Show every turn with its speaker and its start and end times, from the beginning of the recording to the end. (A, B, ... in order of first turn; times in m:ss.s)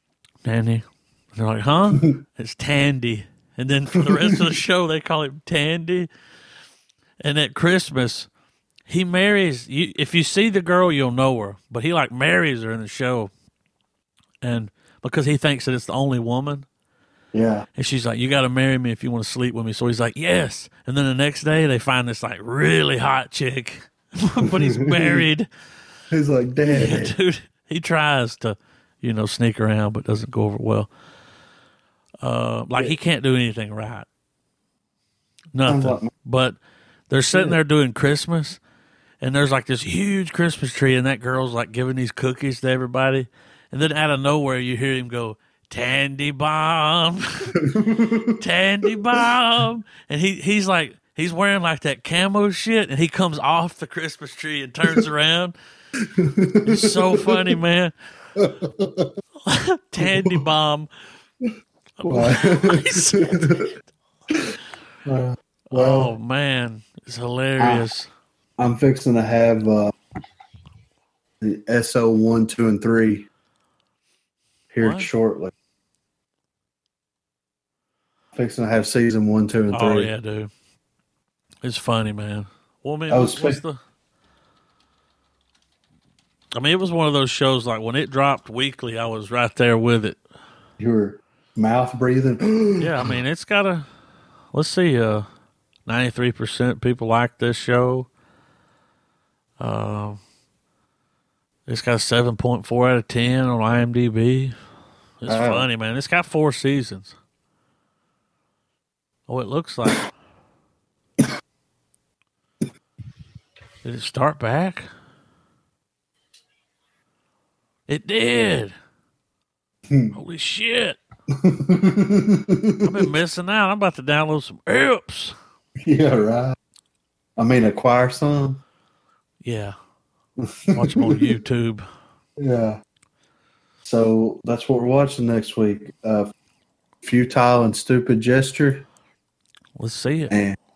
0:00.4-0:06.1 A
0:04.0-0:04.5 B
0:07.2-0:08.3 A
0:08.9-0:13.3 A
0:14.4-0:16.7 A
0:17.3-0:17.7 B
0:17.8-0:25.5 A
0:24.4-0:25.2 B
0:26.1-0:27.1 B
0:26.6-0:30.9 A
0:32.2-0:34.0 A
0:35.5-0:38.6 A
0:35.7-0:36.1 B
0:37.3-0:37.6 B
0:39.2-0:47.6 A
0:47.6-0:48.4 B
0:48.4-0:55.5 A
0:56.0-0:57.6 B
0:56.6-0:57.9 A
0:58.4-0:59.1 B
0:59.4-1:00.9 A
1:00.0-1:00.4 B
1:02.0-1:03.7 A
1:02.0-1:03.7 B
1:05.0-1:06.1 B
1:05.7-1:08.1 A
1:07.6-1:07.9 B
1:08.6-1:09.9 B
1:11.4-1:13.3 B
1:14.7-1:15.5 B
1:14.8-1:15.1 A
1:18.3-1:20.1 B
1:19.7-1:20.5 A
1:21.6-1:23.8 A
1:23.1-1:23.6 B
1:26.6-1:30.2 A
1:30.8-1:33.2 B
1:32.8-1:33.8 A
1:34.5-1:35.2 A
1:35.8-1:38.1 A
1:39.6-1:40.2 A
1:41.7-1:44.5 A
1:45.2-1:47.1 A
1:45.3-1:45.7 B
1:49.3-1:50.0 A
1:53.8-1:54.9 A
1:57.9-1:58.7 A
1:59.9-2:00.1 B
2:00.1-2:01.0 A
2:01.3-2:03.1 B
2:02.8-2:05.4 A
2:05.8-2:06.6 B
2:07.4-2:08.6 B
2:09.4-2:09.7 A
2:10.4-2:11.3 B
2:10.7-2:11.8 A
2:12.4-2:12.8 B
2:13.8-2:16.3 B
2:17.0-2:18.8 B
2:19.8-2:20.3 A
2:20.3-2:20.6 B